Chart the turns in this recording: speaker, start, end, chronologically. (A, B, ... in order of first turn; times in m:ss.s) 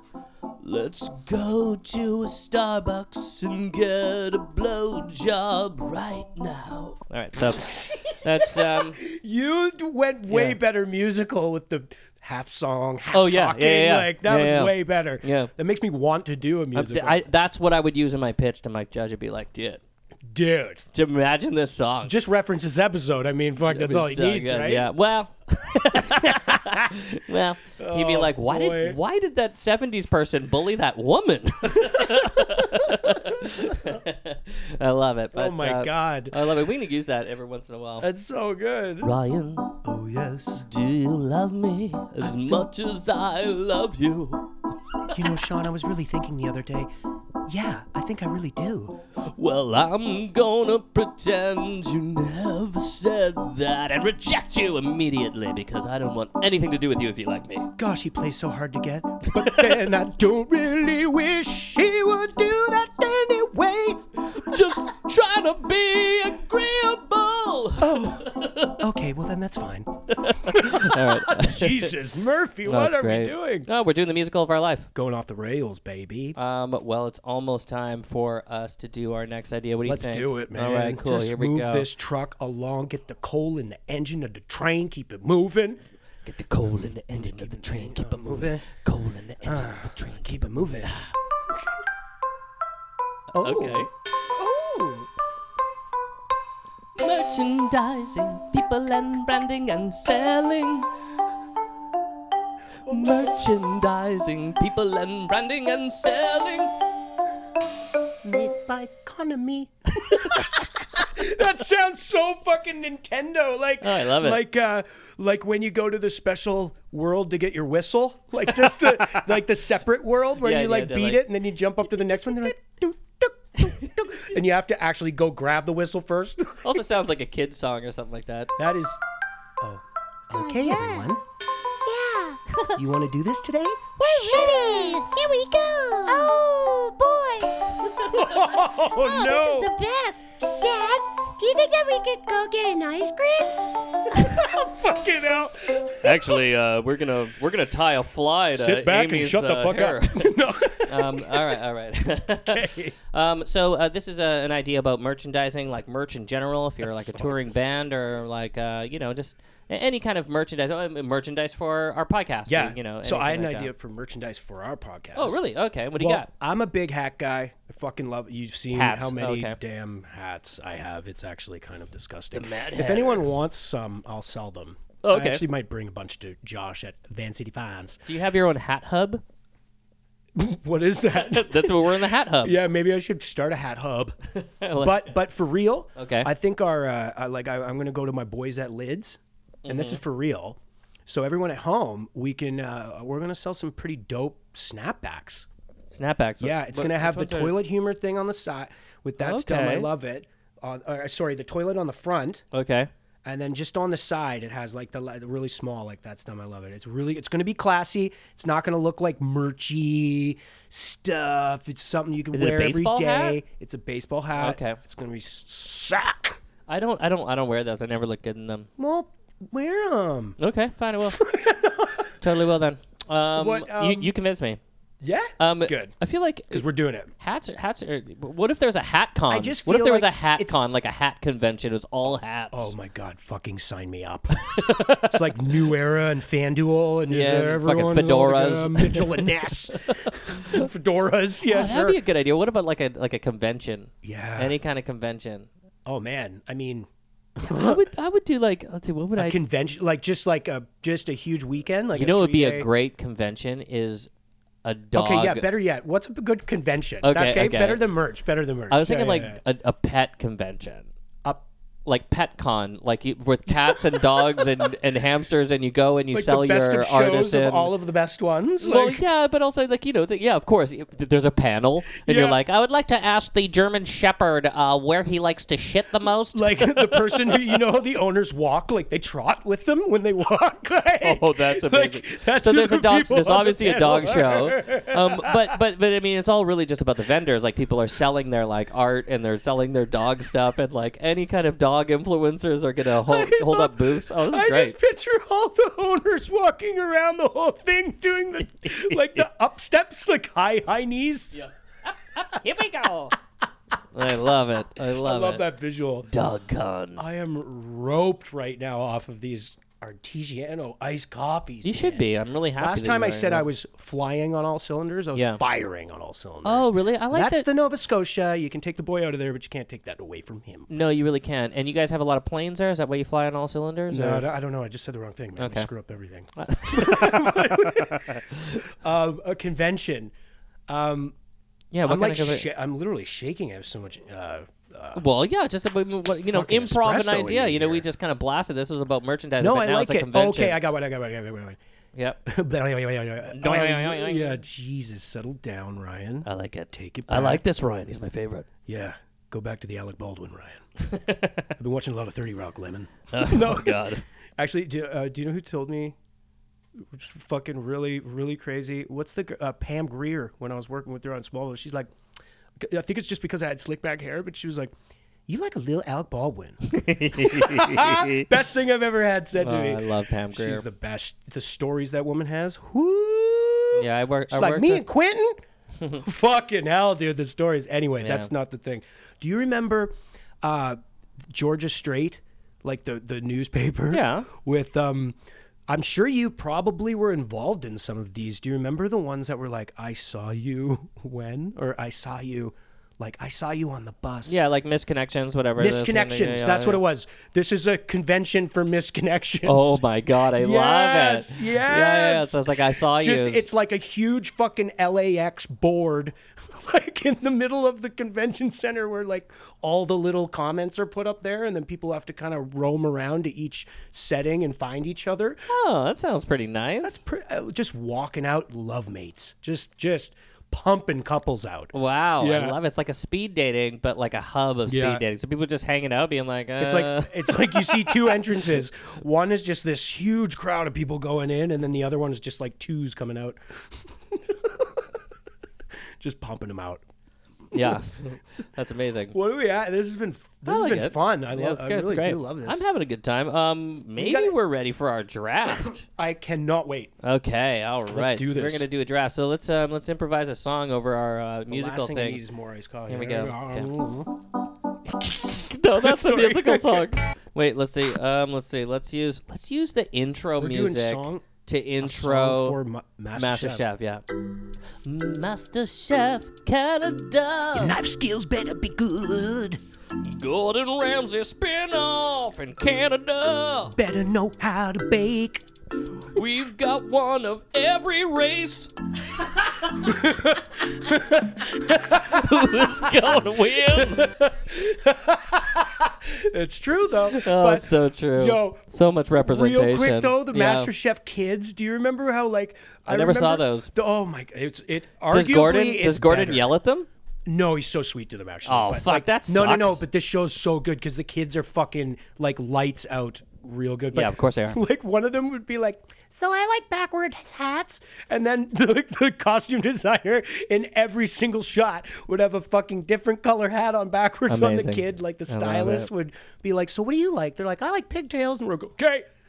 0:00.6-0:09.0 A
0:07.4-0:17.2 B
0:10.3-0:10.6 A
0:13.1-0:15.5 A
0:16.7-0:19.8 A
0:20.3-0:20.8 B
0:20.9-0:22.2 A
0:22.0-0:24.9 B
0:23.7-0:38.1 A
0:25.9-0:27.0 B
0:27.8-0:29.0 B
0:31.7-0:34.0 B
0:35.3-0:36.4 B
0:38.0-0:39.1 B
0:39.0-0:39.8 A
0:39.8-0:40.7 B
0:40.6-0:45.3 A
0:42.2-0:42.6 B
0:45.1-0:46.9 B
0:47.5-0:49.0 B
0:49.2-0:57.7 A
0:57.8-1:04.0 B
0:59.3-0:59.8 A
1:04.2-1:08.8 A
1:07.8-1:13.7 B
1:10.1-1:12.0 A
1:12.6-1:14.9 A
1:14.9-1:16.4 B
1:16.4-1:21.9 A
1:19.8-1:25.8 B
1:26.2-1:31.1 A
1:27.1-1:28.7 B
1:29.4-1:31.0 B
1:33.3-1:35.1 B
1:33.4-1:33.9 A
1:37.0-1:40.9 A
1:42.9-1:43.4 B
1:42.9-1:46.7 A
1:48.2-2:06.8 B
1:50.1-1:50.5 A
1:53.8-1:54.4 A
1:58.5-1:59.4 A
2:00.4-2:01.2 A
2:06.6-2:08.5 A
2:08.6-2:09.0 B
2:09.6-2:11.2 B
2:10.3-2:11.1 C
2:11.8-2:12.8 C
2:12.7-2:14.9 B
2:14.0-2:23.6 C
2:18.0-2:19.7 B
2:24.1-2:26.4 B
2:26.0-2:43.7 A
2:28.5-2:31.6 B
2:32.5-2:33.0 B
2:36.8-2:37.6 B
2:42.5-2:45.4 B
2:45.1-2:46.3 A
2:46.0-2:58.0 B
2:48.7-2:49.6 A
2:52.3-2:53.3 A
2:55.0-2:55.4 A
2:58.1-2:59.2 A
3:00.4-3:01.8 B
3:01.1-3:02.6 A
3:02.4-3:04.2 B
3:04.4-3:05.1 A
3:04.8-3:15.5 B
3:06.0-3:06.3 A
3:09.6-3:10.0 A
3:15.9-3:17.6 A
3:16.4-3:22.4 B
3:19.2-3:19.9 A
3:22.5-3:22.9 A
3:23.2-3:36.4 B
3:32.3-3:33.4 A
3:34.4-3:34.8 A
3:36.7-3:38.7 A
3:38.8-3:40.4 B
3:40.4-3:41.2 A
3:41.0-3:42.1 B
3:42.2-3:44.6 A
3:43.4-3:44.1 B
3:45.0-3:46.0 B
3:45.4-3:46.6 A
3:46.5-3:47.1 B
3:47.2-3:52.7 A
3:49.3-3:50.6 B
3:52.5-4:02.0 B
3:54.5-3:55.3 A
3:57.1-4:00.7 A
4:01.4-4:05.5 A
4:04.0-4:04.6 B
4:05.9-4:07.9 B
4:07.4-4:09.4 A
4:09.2-4:12.7 B
4:12.0-4:14.1 A
4:14.6-4:15.4 A
4:14.9-4:19.4 B
4:17.0-4:17.8 A
4:18.7-4:20.9 A
4:21.9-4:27.7 A
4:23.5-4:24.5 B
4:26.1-4:29.0 B
4:28.6-4:37.6 A
4:32.0-4:32.4 B
4:36.3-4:45.5 B
4:41.0-4:54.8 A
4:53.0-5:01.4 B
4:58.6-4:59.2 A
5:01.3-5:03.2 A
5:03.9-5:05.5 A
5:04.9-5:06.1 B
5:06.1-5:07.0 A
5:07.0-5:12.1 B
5:11.6-5:13.5 A
5:12.6-5:20.7 B
5:15.2-5:15.4 A
5:16.4-5:17.5 A
5:20.7-5:24.3 A
5:23.9-5:30.1 B
5:25.4-5:25.7 A
5:26.4-5:28.6 A
5:30.7-5:31.2 B
5:31.7-5:32.5 A
5:31.8-5:35.0 B
5:35.0-5:40.6 A
5:36.2-5:37.9 B
5:39.4-5:41.6 B
5:42.0-5:42.2 A
5:42.3-5:47.4 B
5:43.3-5:44.4 A
5:46.2-5:48.5 A
5:48.7-5:50.6 B
5:50.8-5:51.6 A
5:51.6-5:56.0 B
5:53.1-5:54.0 A
5:56.8-6:01.9 B
6:02.6-6:04.7 B
6:05.3-6:15.4 B
6:06.6-6:08.3 A
6:09.4-6:10.6 A
6:13.7-6:14.9 A
6:16.0-6:20.8 B
6:18.0-6:18.3 A
6:21.3-6:25.2 B
6:23.9-6:24.3 A
6:25.7-6:34.4 B
6:34.3-6:36.8 A
6:35.6-6:55.5 B
6:39.4-6:43.5 A
6:55.5-6:57.0 A
6:56.8-7:02.6 B
7:01.7-7:08.4 A
7:04.7-7:05.0 B
7:06.6-7:15.0 B
7:16.0-7:16.8 B
7:17.5-7:17.8 B
7:17.5-7:19.1 A
7:19.1-7:22.6 B
7:20.5-7:25.8 A
7:24.0-7:24.4 B
7:25.8-7:26.9 B
7:27.0-7:32.2 A
7:27.9-7:28.7 B
7:31.5-7:34.2 B
7:32.9-7:33.7 A
7:35.2-7:42.6 A
7:35.7-7:36.9 B
7:40.4-7:41.3 B
7:41.8-7:43.6 B
7:43.2-7:44.0 A
7:44.8-7:47.8 A
7:47.5-7:49.6 B
7:50.0-7:53.8 A
7:53.8-7:55.4 B
7:56.1-7:59.9 A
7:59.7-8:16.5 B
8:01.9-8:04.2 A
8:07.1-8:10.7 A
8:12.9-8:13.7 A
8:15.1-8:16.9 A
8:17.3-8:39.0 B
8:18.5-8:19.8 A
8:23.9-8:24.6 A
8:34.3-8:35.9 A